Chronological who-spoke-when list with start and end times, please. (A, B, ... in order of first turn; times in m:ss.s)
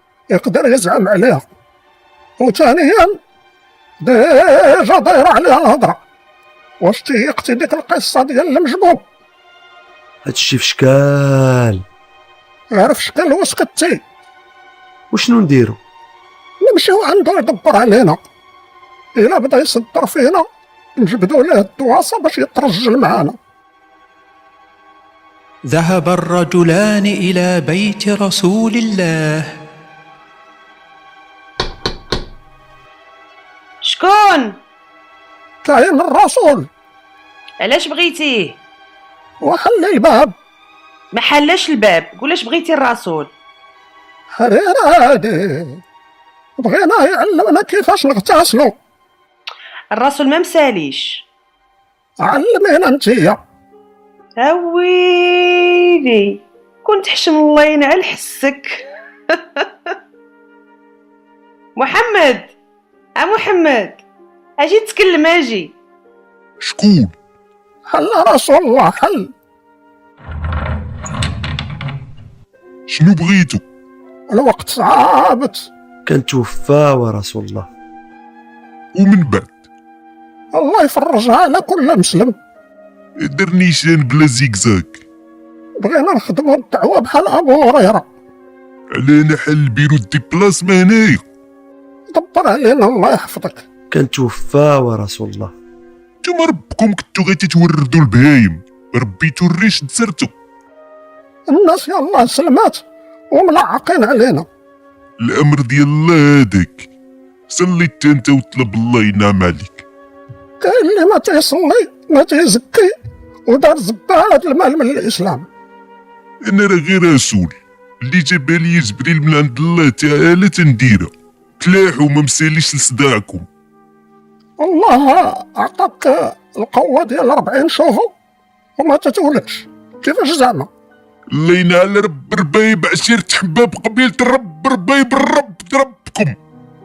0:00.3-0:01.4 A
0:02.4-0:03.2 A
0:04.0-0:06.0 A
0:06.8-0:09.0 A
0:10.2-0:11.8 B
0:12.7-0:14.0 A
0:15.1-0:15.8 B
0:16.6-0:18.2 A
0:19.2-0:20.4 A
0:21.0-0:23.4 A
0:25.7-0:29.5 C
0:33.8-0:34.6 D
0:35.6-0:36.7 A
0:37.6-0:38.6 D
0:39.4-0:40.3 A
0:41.1-0:43.3 D
0:44.3-0:45.8 A
0:46.6-0:48.7 A
0:49.9-0:51.2 D
0:52.2-0:53.4 A
0:54.4-0:59.9 D
1:01.8-1:02.5 D
1:03.2-1:04.0 D
1:04.6-1:05.7 D
1:06.6-1:07.1 E
1:07.9-1:09.3 A
1:12.9-1:13.6 E
1:14.3-1:15.6 A
1:16.0-1:17.7 B
1:19.0-1:19.5 E
1:20.5-1:22.3 A
1:23.2-1:25.0 E
1:25.8-1:28.0 A
1:28.9-1:31.2 E
1:32.1-1:33.6 A
1:33.9-1:35.5 B
1:36.2-1:40.3 E
1:41.5-1:44.4 A
1:45.2-1:46.9 E
1:47.5-1:49.8 E
1:50.6-1:52.9 A
1:53.5-1:55.4 A
1:56.4-2:03.4 E
2:04.6-2:08.1 A
2:08.8-2:10.7 A
2:11.3-2:16.4 E